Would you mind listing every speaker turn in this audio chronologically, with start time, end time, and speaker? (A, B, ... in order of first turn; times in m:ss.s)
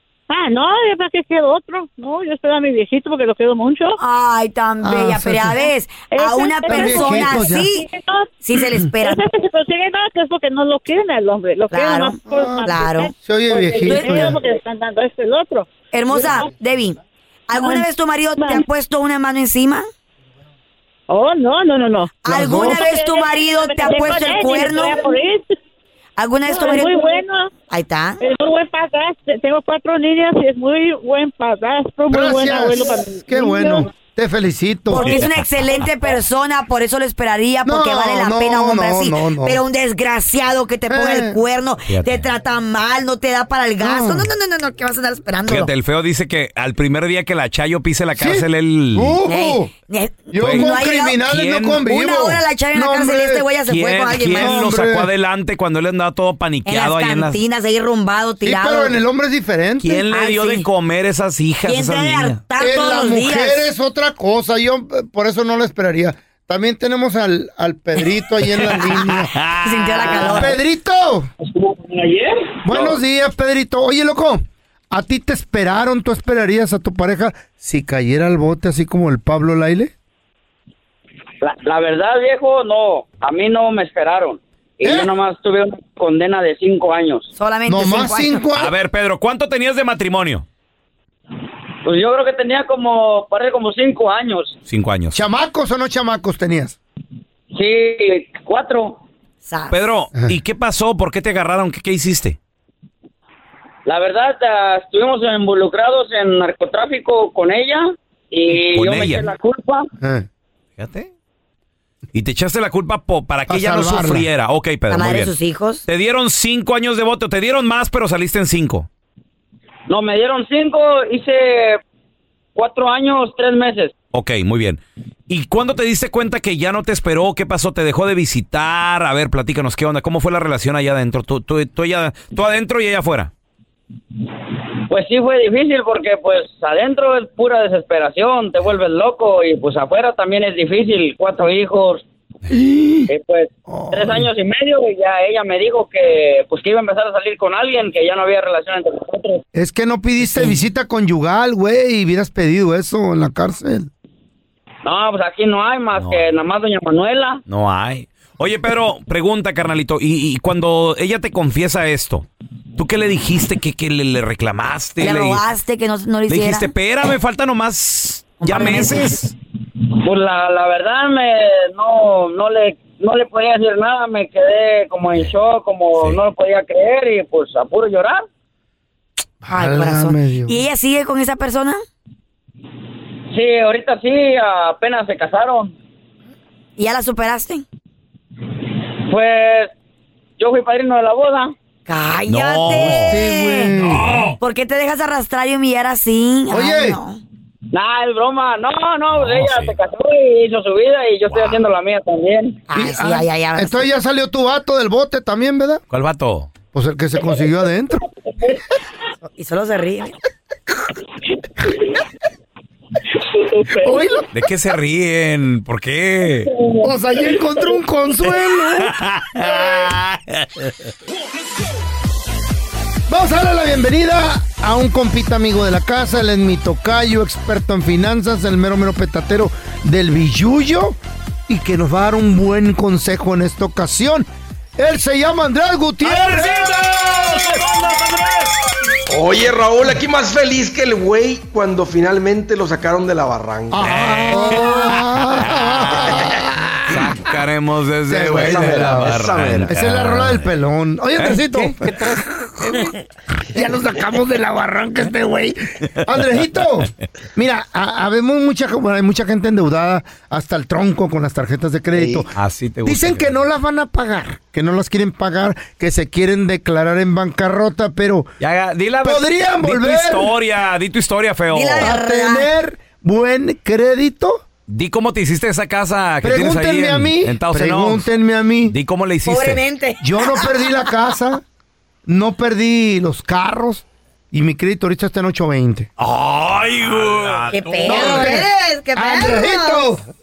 0:00.3-0:04.0 A
0:04.0-0:07.9 B
0:04.8-0:05.6 C
0:06.1-0:08.3 A
0:06.7-0:07.7 C
0:08.4-0:09.2 B
0:09.0-0:16.5 A
0:11.7-0:13.1 B
0:12.3-0:14.4 C
0:13.7-0:14.4 B
0:15.9-0:19.9 B
0:17.5-0:18.6 A
0:21.1-0:25.6 A
0:22.2-0:25.0 B
0:22.2-0:22.8 C
0:26.2-0:27.0 B
0:26.5-0:27.5 A
0:27.7-0:28.2 B
0:28.2-0:33.9 A
0:32.1-0:35.2 C
0:34.9-0:45.7 B
0:35.0-0:35.5 D
0:37.6-0:39.6 C
0:40.9-0:41.4 C
0:41.9-0:42.3 D
0:43.8-0:44.3 C
0:45.5-0:49.2 D
0:48.2-0:49.7 C
0:49.2-0:51.2 B
0:50.3-0:53.5 C
0:50.4-0:50.7 D
0:51.2-0:51.8 D
0:51.8-0:54.6 B
0:53.7-0:57.4 D
0:54.3-0:55.1 C
0:56.6-0:59.0 B
0:58.4-1:00.0 C
0:59.8-1:02.4 D
1:00.1-1:00.7 B
1:01.6-1:03.7 B
1:02.6-1:09.3 C
1:08.5-1:10.5 D
1:09.5-1:10.6 B
1:10.2-1:11.3 C
1:11.4-1:12.9 E
1:12.6-1:19.9 C
1:21.4-1:27.3 E
1:24.8-1:25.1 C
1:27.3-1:28.5 B
1:27.7-1:28.7 C
1:28.6-1:30.4 D
1:31.8-1:34.6 E
1:34.7-1:35.2 D
1:35.1-1:36.8 C
1:37.5-1:39.0 E
1:39.4-1:39.8 B
1:39.7-1:42.4 D
1:43.8-1:49.9 E
1:48.5-1:49.3 D
1:50.0-1:50.3 C
1:50.8-1:51.1 D
1:52.1-1:55.3 D
1:53.5-1:54.3 C
1:54.9-1:55.8 B
1:55.8-1:58.9 D
1:59.9-2:01.8 E
2:02.5-2:03.9 E
2:04.1-2:13.3 D
2:14.9-2:22.0 E
2:22.5-2:23.1 C
2:23.1-2:29.4 E
2:23.7-2:24.3 C
2:29.5-2:33.9 C
2:34.8-2:37.4 E
2:36.0-2:36.3 D
2:37.5-2:45.4 D
2:45.0-2:46.7 B
2:46.3-2:49.3 D
2:48.4-2:49.2 B
2:50.0-2:58.2 E
2:59.4-3:00.6 C
2:59.5-3:01.8 B
3:03.3-3:05.8 E
3:06.8-3:07.6 B
3:09.1-3:09.7 E
3:10.4-3:11.5 E
3:11.9-3:13.8 B
3:12.3-3:13.2 D
3:13.0-3:14.3 C
3:13.9-3:14.4 D
3:14.4-3:17.2 B
3:16.5-3:17.0 C
3:17.7-3:22.6 E
3:19.1-3:19.8 D
3:21.3-3:21.6 D
3:22.7-3:23.9 B
3:22.7-3:25.8 C
3:25.9-3:26.5 D
3:26.7-3:28.0 C
3:29.2-3:30.1 B
3:33.8-3:34.3 C
3:34.3-3:36.5 D
3:36.8-3:38.9 C
3:38.8-3:40.7 D
3:43.1-3:57.5 C
3:56.0-3:58.6 D
3:59.1-4:03.9 F
4:03.7-4:07.2 C
4:03.8-4:10.5 D
4:08.1-4:12.9 C
4:08.3-4:09.7 F
4:11.2-4:12.0 D
4:13.5-4:22.3 C
4:22.3-4:23.3 D
4:22.8-4:28.3 C
4:28.4-4:31.9 D
4:29.0-4:30.3 C
4:31.5-4:32.5 B
4:31.8-4:34.4 C
4:34.7-4:38.1 D
4:36.2-4:38.8 C
4:38.7-4:39.6 D
4:39.2-4:41.0 B
4:40.0-4:41.4 C
4:42.0-4:45.9 C
4:46.0-4:48.4 D
4:47.5-4:49.9 B
4:47.8-4:50.0 C